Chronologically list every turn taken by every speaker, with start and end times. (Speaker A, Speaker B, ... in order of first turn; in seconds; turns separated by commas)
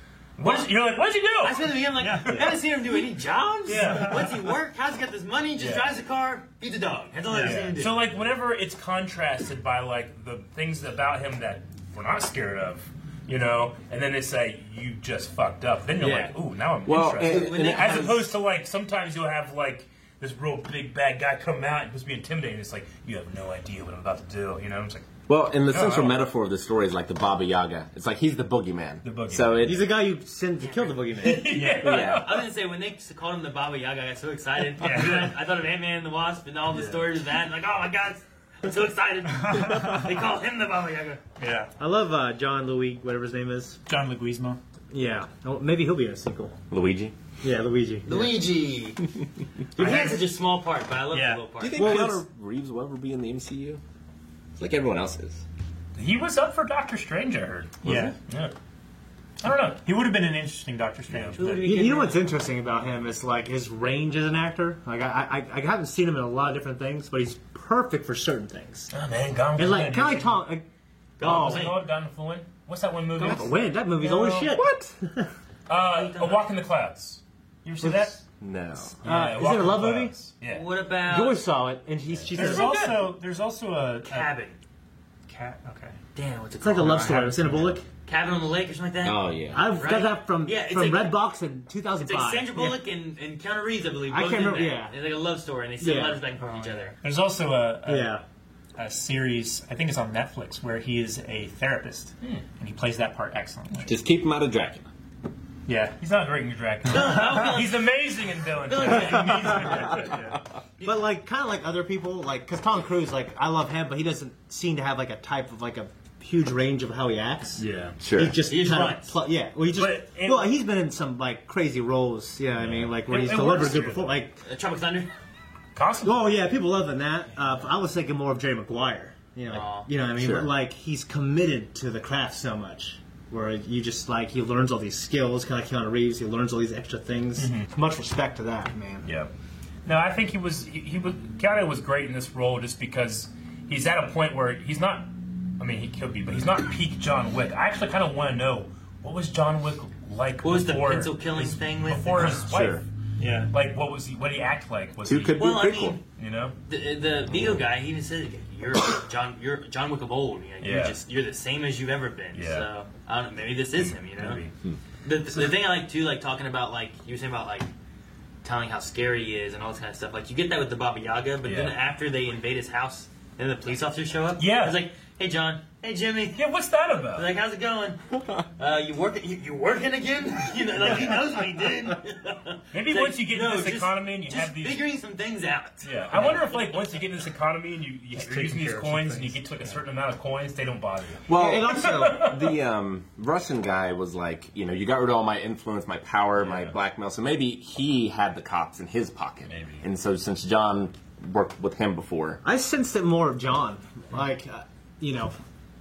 Speaker A: 0.4-2.6, Speaker B: 0.4-0.7, Speaker B: 1.4-8.0, Speaker C: 2.0-2.6, Speaker A: 3.6-4.5, Speaker C: 3.7-4.3, Speaker A: 5.6-5.9, Speaker C: 7.3-7.7, Speaker A: 7.3-25.1, Speaker D: 16.0-16.3, Speaker D: 16.8-18.3, Speaker B: 17.2-18.2, Speaker D: 25.3-29.9, Speaker A: 25.7-26.2, Speaker A: 29.0-29.8, Speaker E: 29.6-31.6, Speaker B: 30.6-41.2, Speaker A: 31.2-32.5, Speaker D: 31.8-32.3, Speaker C: 34.8-35.3, Speaker A: 36.7-37.1, Speaker C: 39.3-40.1, Speaker C: 41.4-41.7, Speaker E: 41.8-43.8, Speaker C: 43.9-44.6, Speaker E: 44.9-46.5, Speaker D: 46.7-47.1, Speaker E: 47.4-48.4, Speaker B: 48.0-49.0, Speaker B: 49.7-52.0, Speaker E: 49.8-50.1, Speaker C: 49.8-50.1, Speaker C: 51.1-52.1, Speaker D: 51.6-53.8, Speaker E: 51.8-52.1, Speaker D: 54.6-55.4, Speaker A: 55.9-58.5, Speaker C: 57.8-58.2, Speaker D: 57.8-58.1, Speaker A: 59.4-59.8, Speaker C: 59.8-61.9, Speaker A: 61.1-61.4, Speaker B: 61.4-62.3, Speaker E: 61.6-68.9, Speaker A: 68.9-70.5, Speaker E: 69.5-70.6, Speaker B: 71.2-71.8, Speaker E: 71.2-71.7, Speaker A: 71.2-74.6, Speaker E: 73.2-75.3, Speaker A: 75.7-78.2, Speaker B: 75.7-76.5, Speaker E: 77.8-78.2, Speaker D: 78.4-79.0, Speaker A: 79.0-80.7, Speaker E: 79.0-80.1, Speaker B: 80.5-81.4, Speaker E: 81.0-82.8, Speaker A: 82.2-83.1, Speaker C: 82.3-84.3, Speaker B: 84.0-84.6, Speaker C: 85.3-86.0, Speaker B: 86.1-87.4, Speaker E: 86.6-87.8, Speaker C: 87.2-87.8, Speaker B: 87.9-91.2, Speaker D: 89.0-89.7, Speaker E: 89.5-92.8, Speaker B: 92.0-97.0, Speaker E: 94.1-95.0, Speaker E: 95.8-96.2, Speaker C: 97.0-98.2, Speaker E: 97.8-98.2, Speaker C: 98.8-104.0, Speaker D: 103.8-104.8, Speaker C: 105.7-106.0, Speaker A: 106.0-110.3, Speaker B: 106.9-107.9, Speaker B: 108.6-110.1, Speaker C: 109.8-110.4, Speaker B: 110.8-111.1, Speaker E: 110.8-124.4, Speaker A: 117.6-118.0, Speaker D: 118.0-118.4, Speaker B: 118.4-119.2, Speaker A: 119.7-120.5, Speaker A: 122.6-124.2, Speaker B: 124.4-125.1, Speaker A: 125.7-126.3, Speaker E: 126.0-139.1, Speaker B: 129.5-129.9, Speaker D: 130.2-130.5, Speaker A: 137.4-137.7, Speaker A: 139.0-139.3, Speaker A: 139.8-152.8, Speaker B: 150.4-152.5, Speaker D: 152.3-152.8, Speaker C: 153.2-153.5, Speaker A: 153.5-155.6, Speaker D: 155.0-156.0, Speaker B: 155.4-156.0, Speaker A: 156.1-156.6, Speaker B: 156.7-164.4, Speaker A: 160.6-161.0, Speaker A: 162.3-162.7, Speaker A: 163.8-164.5, Speaker B: 165.0-167.7, Speaker B: 168.4-176.4, Speaker A: 171.4-171.8, Speaker A: 174.4-174.8, Speaker A: 176.3-177.3, Speaker B: 177.1-178.0, Speaker B: 178.6-186.6, Speaker A: 182.7-184.9, Speaker A: 185.8-192.5, Speaker C: 188.2-189.4, Speaker D: 191.3-202.4, Speaker E: 191.3-192.2, Speaker A: 196.4-196.8, Speaker A: 199.5-199.8, Speaker E: 202.4-205.3